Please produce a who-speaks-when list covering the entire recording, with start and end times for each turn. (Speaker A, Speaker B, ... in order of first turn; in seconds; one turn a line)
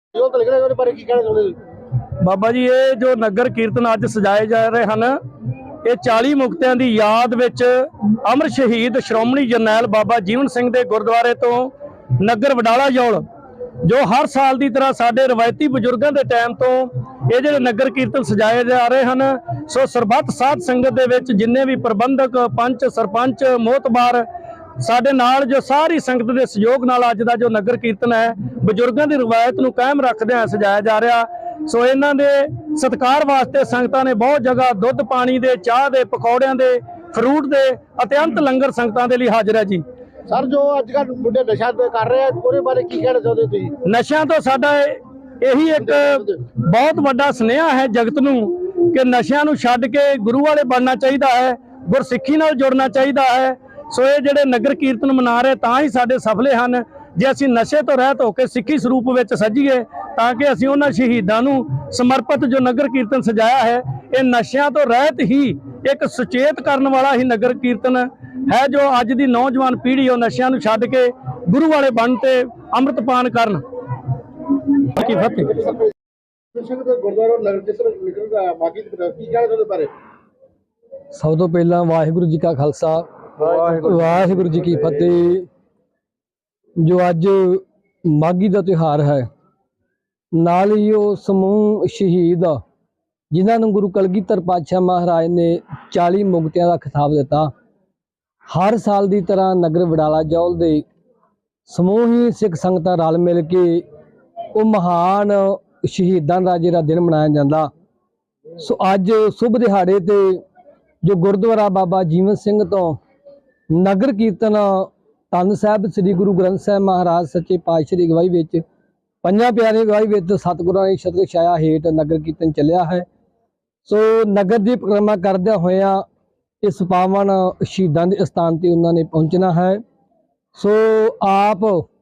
Speaker A: 0.1-1.6
Speaker B: 2.2-5.2
Speaker B: 5.8-13.2
Speaker B: 13.8-24.2
Speaker B: 24.8-39.8
Speaker A: 40.3-43.7
Speaker B: 43.8-73.6
Speaker A: 45.8-46.4
Speaker B: 74.4-75.6
Speaker A: 75.5-75.9
Speaker A: 76.5-79.9
Speaker C: 81.1-85.5
Speaker C: 86.8-89.3
Speaker C: 90.3-92.6
Speaker C: 93.3-97.5
Speaker C: 98.5-100.8
Speaker C: 101.7-103.8
Speaker C: 104.5-107.7
Speaker C: 108.6-110.4
Speaker C: 111.0-113.0
Speaker C: 113.7-118.6
Speaker C: 119.2-123.0
Speaker C: 123.8-126.0
Speaker C: 126.6-129.8
Speaker C: 130.5-131.8